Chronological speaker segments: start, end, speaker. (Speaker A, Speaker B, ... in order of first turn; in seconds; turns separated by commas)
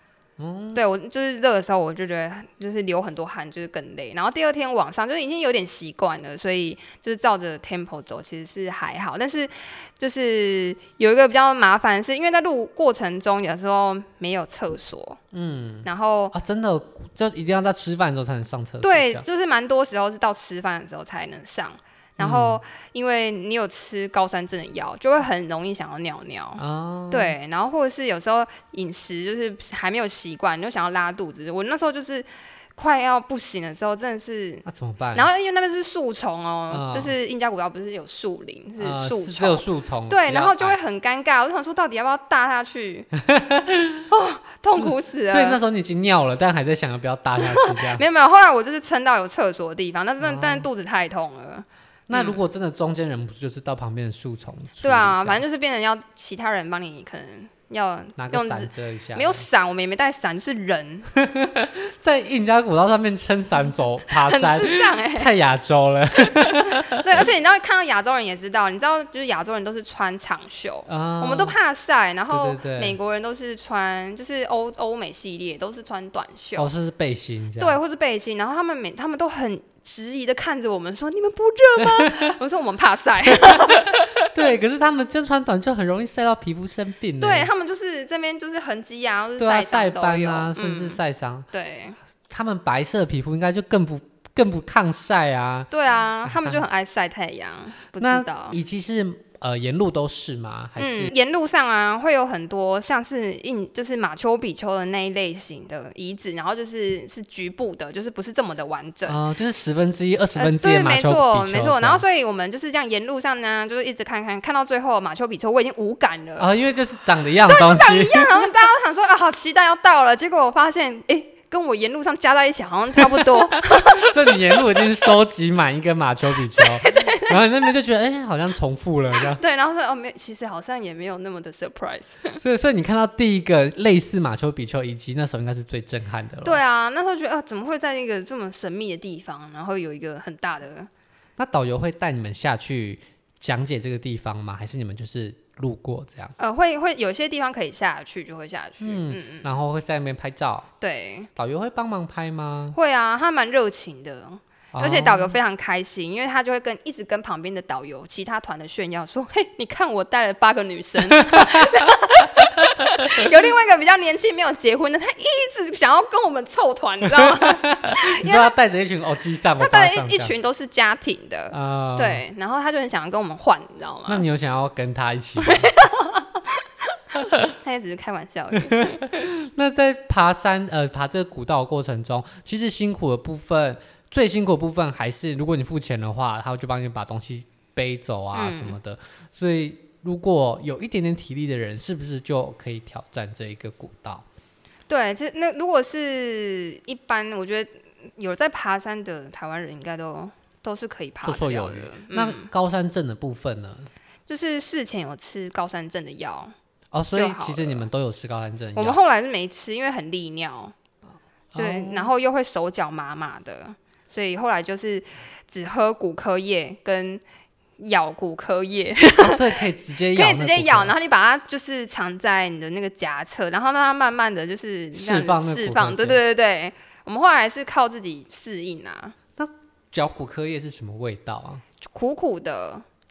Speaker A: 0.4-0.8, Speaker B: 0.7-15.2, Speaker A: 15.3-19.2, Speaker B: 15.8-16.3, Speaker B: 18.8-43.1, Speaker A: 22.2-22.6, Speaker A: 26.6-27.3, Speaker A: 34.6-35.3, Speaker A: 36.7-37.1, Speaker A: 38.8-40.8, Speaker A: 43.2-44.0, Speaker B: 44.1-45.6, Speaker A: 44.7-48.0, Speaker B: 47.4-52.4, Speaker A: 50.2-50.7, Speaker A: 52.1-55.4, Speaker B: 54.8-61.1, Speaker A: 58.1-59.4, Speaker A: 61.1-67.2, Speaker B: 64.2-65.3, Speaker B: 66.3-76.7, Speaker A: 70.9-71.5, Speaker A: 72.3-73.0, Speaker A: 76.6-77.8, Speaker B: 77.6-84.3, Speaker A: 81.8-82.4, Speaker A: 83.3-87.5, Speaker B: 87.2-91.0, Speaker A: 89.4-91.5, Speaker B: 91.5-92.0, Speaker A: 92.3-95.7, Speaker B: 95.7-98.6, Speaker A: 96.2-96.6, Speaker A: 98.0-101.1, Speaker B: 100.8-109.2, Speaker A: 109.0-112.0, Speaker B: 110.4-116.5, Speaker A: 116.4-118.5, Speaker B: 117.4-125.0, Speaker A: 123.0-129.4, Speaker B: 126.5-127.4, Speaker B: 129.2-132.4, Speaker A: 132.4-136.6, Speaker B: 136.4-140.9, Speaker A: 141.4-146.3, Speaker B: 146.4-149.5, Speaker A: 148.8-150.7, Speaker B: 150.8-151.3, Speaker A: 151.3-152.8, Speaker B: 152.7-168.5, Speaker A: 154.7-155.3, Speaker A: 161.1-161.7, Speaker A: 167.1-170.3, Speaker B: 169.6-174.2, Speaker A: 171.5-172.2, Speaker A: 174.1-175.7, Speaker B: 175.4-179.3, Speaker A: 178.6-194.2, Speaker B: 188.3-188.8, Speaker B: 194.9-202.5, Speaker A: 201.2-203.9, Speaker B: 204.3-206.5, Speaker A: 206.9-209.0, Speaker B: 207.1-207.8, Speaker B: 208.8-210.7, Speaker A: 211.5-212.1, Speaker B: 211.6-217.2, Speaker B: 217.8-229.2, Speaker A: 219.2-220.9, Speaker A: 224.9-226.2, Speaker A: 229.4-231.6, Speaker B: 231.8-232.8